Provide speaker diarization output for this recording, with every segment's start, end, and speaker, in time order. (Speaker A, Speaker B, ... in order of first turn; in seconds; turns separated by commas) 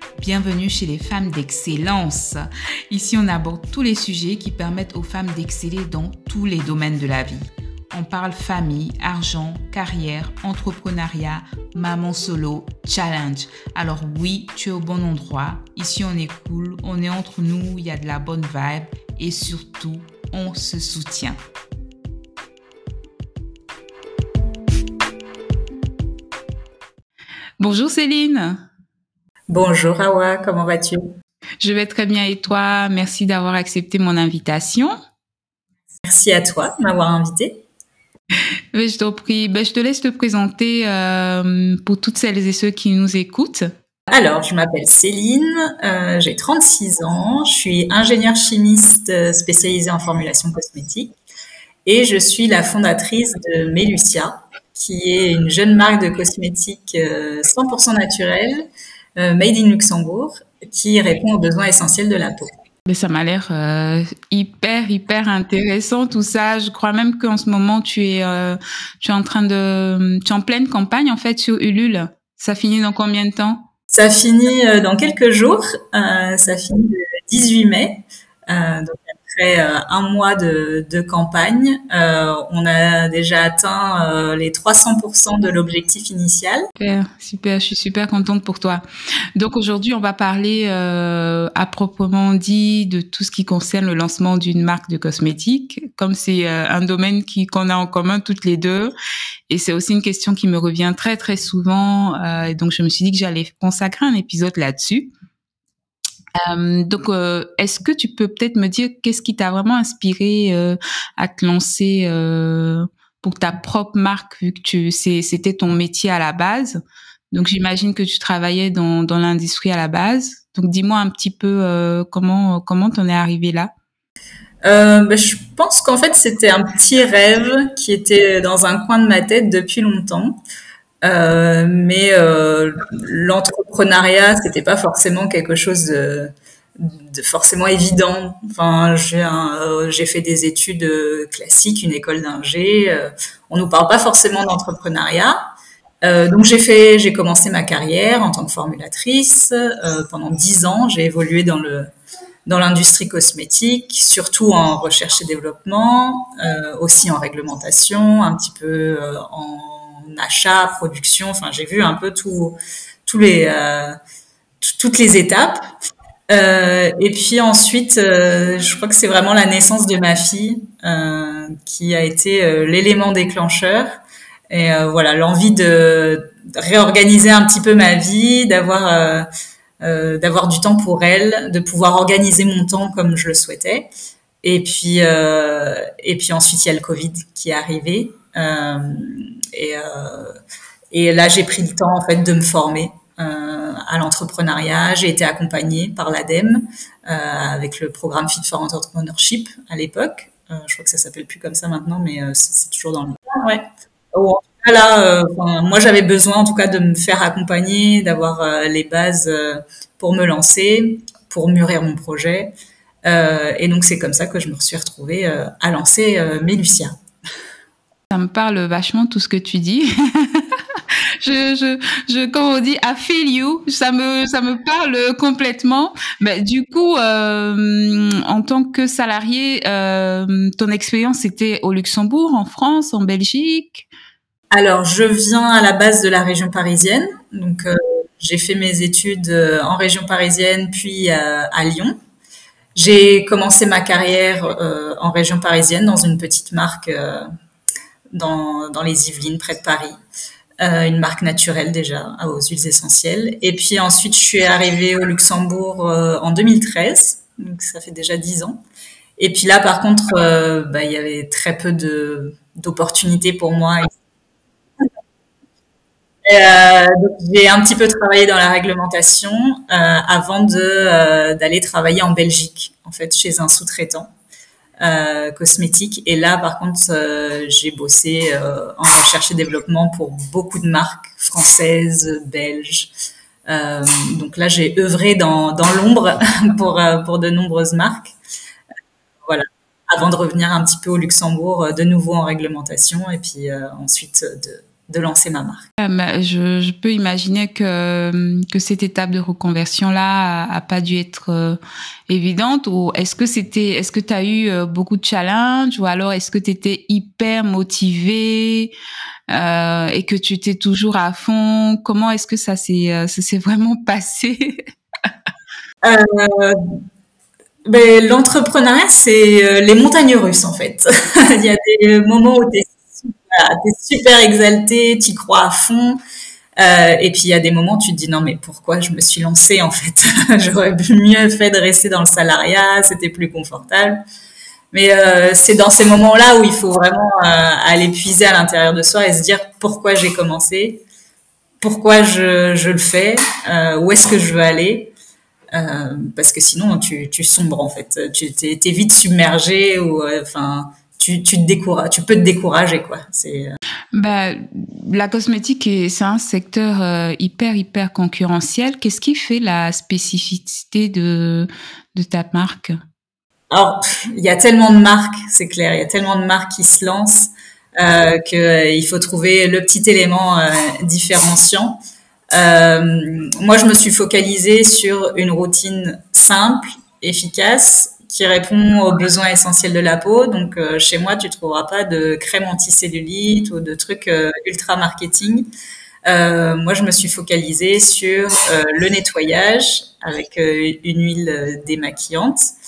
Speaker A: 0.2-21.4, Speaker A: 27.6-28.6, Speaker B: 29.5-31.0, Speaker A: 31.6-35.0, Speaker B: 36.0-37.6, Speaker A: 38.7-43.7, Speaker B: 44.1-51.1, Speaker B: 51.8-58.7, Speaker B: 59.2-62.5, Speaker A: 62.9-73.7, Speaker B: 73.9-86.7, Speaker A: 86.8-88.8, Speaker A: 89.3-98.9, Speaker A: 99.5-105.1, Speaker A: 106.3-116.8, Speaker A: 117.3-123.7, Speaker B: 124.6-130.4, Speaker B: 131.0-145.4, Speaker B: 146.0-151.9, Speaker B: 152.5-164.0, Speaker B: 164.6-165.7, Speaker B: 166.3-174.0, Speaker B: 174.5-179.3, Speaker B: 179.8-183.9, Speaker B: 184.4-190.4, Speaker B: 190.9-212.5, Speaker B: 213.0-216.9, Speaker A: 218.1-233.9, Speaker B: 234.5-241.9, Speaker B: 242.8-247.3, Speaker B: 248.1-250.0, Speaker B: 250.6-258.6, Speaker B: 259.2-263.9, Speaker B: 266.2-274.1, Speaker B: 274.8-282.9, Speaker B: 283.5-288.1, Speaker B: 289.2-295.6, Speaker A: 295.8-308.7, Speaker A: 309.3-314.6, Speaker B: 315.8-316.6, Speaker B: 317.6-326.0, Speaker B: 326.6-334.0, Speaker B: 334.7-340.8, Speaker B: 341.6-344.9, Speaker B: 345.5-353.6, Speaker A: 353.9-362.8, Speaker B: 363.5-371.8, Speaker B: 372.3-385.5, Speaker B: 386.1-392.5